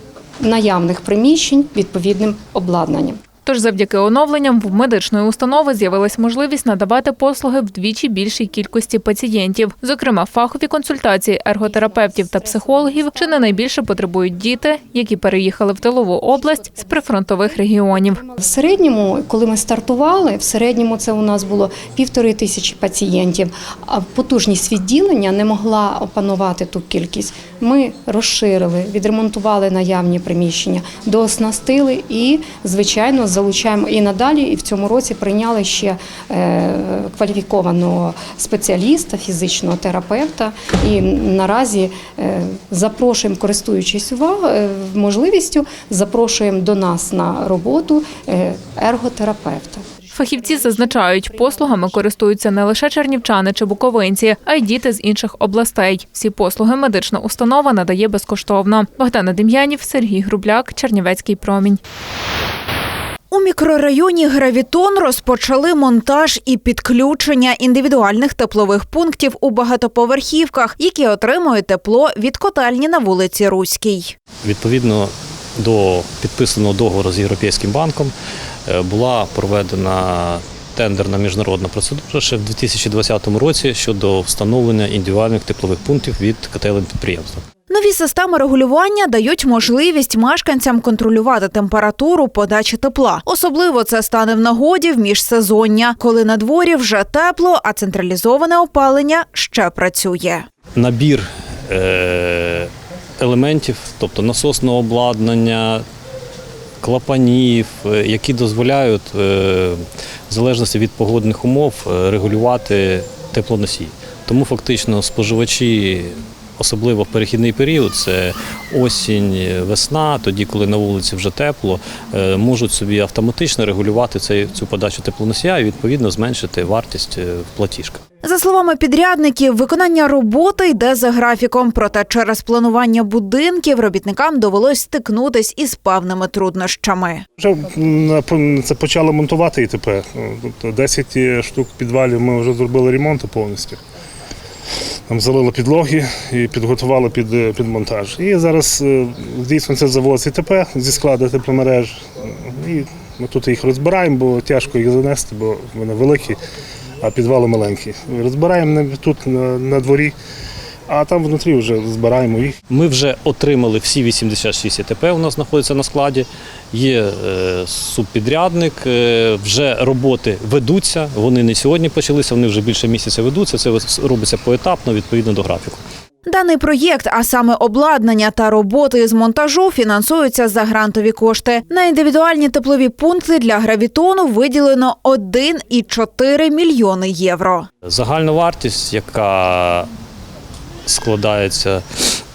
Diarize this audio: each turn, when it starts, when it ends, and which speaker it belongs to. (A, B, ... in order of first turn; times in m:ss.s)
0:00.4-0:03.2 A
0:03.5-0:18.2 B
0:18.2-0:49.8 A
0:50.1-1:01.8 B
1:03.3-1:14.1 C
1:14.4-1:18.1 D
1:18.7-1:27.4 D
1:27.7-1:40.5 C
1:40.8-1:45.8 D
1:46.8-2:08.0 D
2:08.2-2:17.2 C
2:17.4-2:23.8 E
2:25.1-2:36.4 E
2:37.0-2:40.1 E
2:40.9-2:42.6 E
2:42.7-2:55.8 D
2:56.3-3:07.7 C
3:07.8-3:09.9 D
3:10.9-3:11.8 D